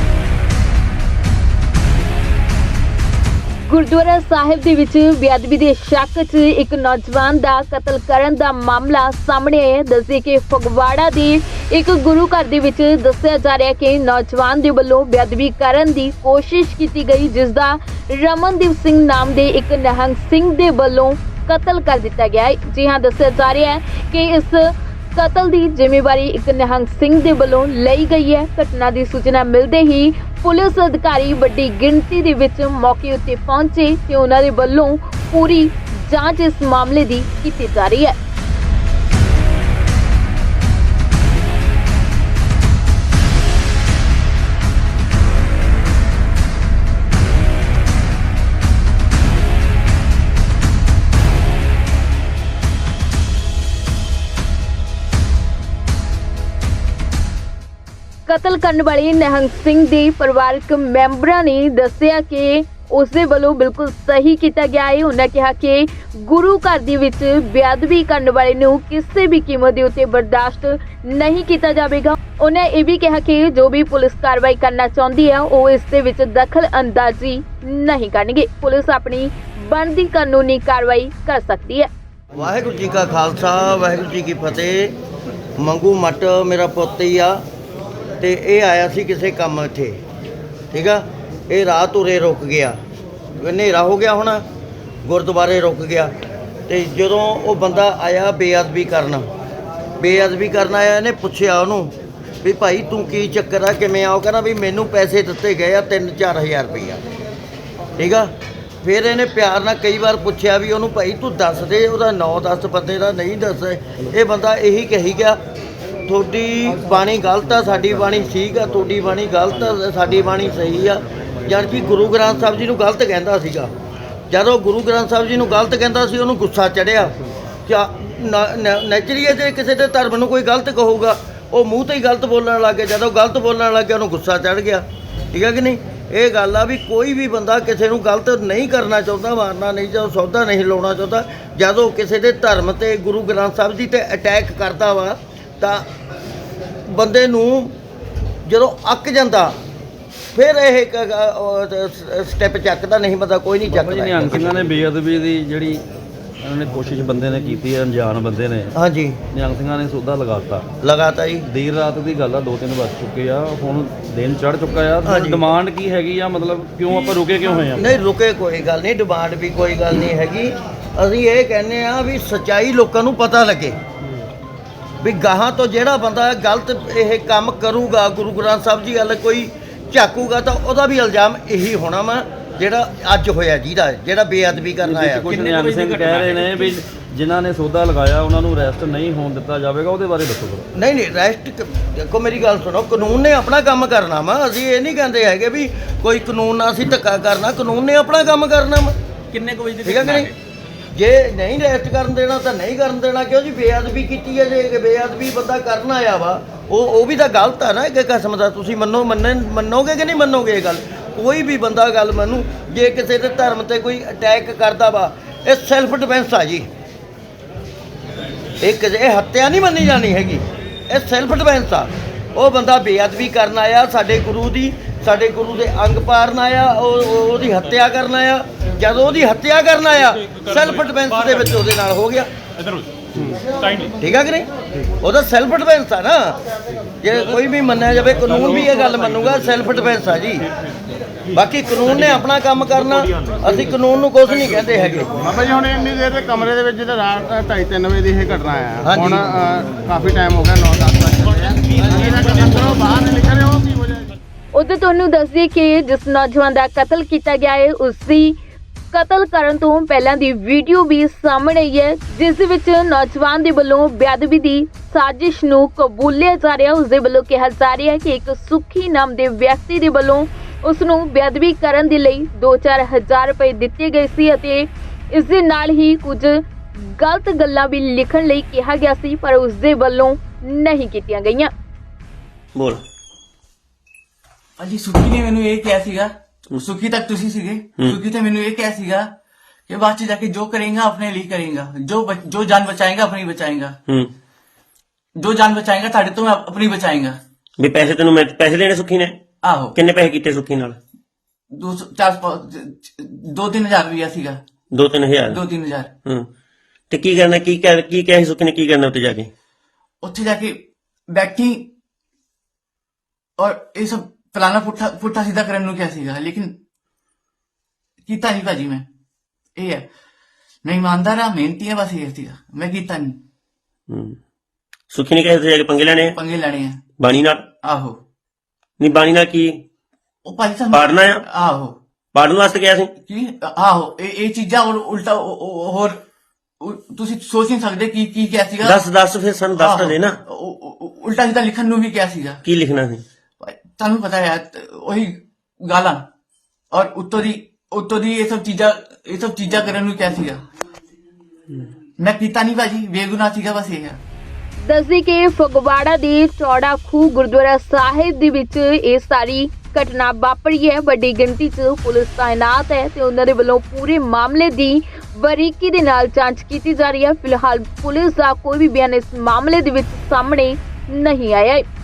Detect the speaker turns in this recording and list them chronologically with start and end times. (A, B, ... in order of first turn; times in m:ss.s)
0:03.6-0:38.2 A
0:58.3-1:21.9 A
1:22.3-1:24.9 B
1:25.6-1:27.4 B
1:28.2-1:30.0 B
1:30.7-1:32.8 B
1:33.4-1:34.4 B
1:35.0-1:36.1 B
1:36.7-1:39.3 B
1:40.0-1:41.9 B
1:42.4-1:47.0 B
1:48.0-1:48.3 B
1:48.8-1:55.4 B
1:56.1-2:03.7 B
2:04.3-2:07.1 B
2:07.6-2:25.8 B
2:26.9-2:27.7 B
2:28.4-2:29.6 B
2:30.3-2:34.7 B
2:33.7-2:35.8 C
2:36.4-2:38.7 C
2:38.8-2:39.2 B
2:39.3-2:40.7 C
2:40.8-2:41.4 B
2:41.4-2:47.9 C
2:45.0-2:45.4 B
2:47.7-2:53.8 B
2:55.0-3:05.3 B
3:04.8-3:10.7 C
3:05.3-3:06.7 D
3:10.8-3:18.9 B
3:19.3-3:20.3 D
3:19.8-3:20.3 B
3:20.9-3:36.7 B
3:38.6-3:52.3 B
3:53.8-3:54.4 B
3:55.0-3:56.4 B
3:57.0-4:00.5 B
4:01.3-4:05.5 B
4:05.5-4:08.7 D
4:08.8-4:09.5 B
4:09.6-4:11.5 D
4:11.9-4:12.6 B
4:13.0-4:13.8 D
4:14.6-4:18.4 A
4:18.9-4:41.5 A
4:42.5-4:42.8 E
4:44.6-4:49.1 F
4:49.7-4:53.8 F
4:53.9-4:54.1 E
4:55.2-4:57.2 F
4:57.6-4:59.2 E
4:59.4-4:59.8 F
4:59.7-5:00.8 E
5:01.5-5:04.4 F
5:04.7-5:05.4 E
5:05.3-5:05.9 F
5:06.9-5:09.3 E
5:10.0-5:11.7 F
5:13.4-5:16.5 F
5:18.0-5:18.8 F
5:19.6-5:19.8 F
5:20.6-5:23.2 F
5:23.9-5:24.2 E
5:24.9-5:26.2 E
5:26.1-5:26.8 F
5:27.0-5:27.4 E
5:27.6-5:28.0 F
5:28.8-5:29.6 E
5:30.2-5:31.8 F
5:30.7-5:31.2 E
5:32.1-5:32.9 E
5:33.0-5:36.0 F
5:36.6-5:38.8 F
5:38.6-5:40.2 E
5:39.6-5:42.4 F
5:42.4-5:43.0 E
5:43.4-5:46.0 F
5:46.7-5:50.4 F
5:52.0-5:54.0 F
5:54.6-6:11.6 A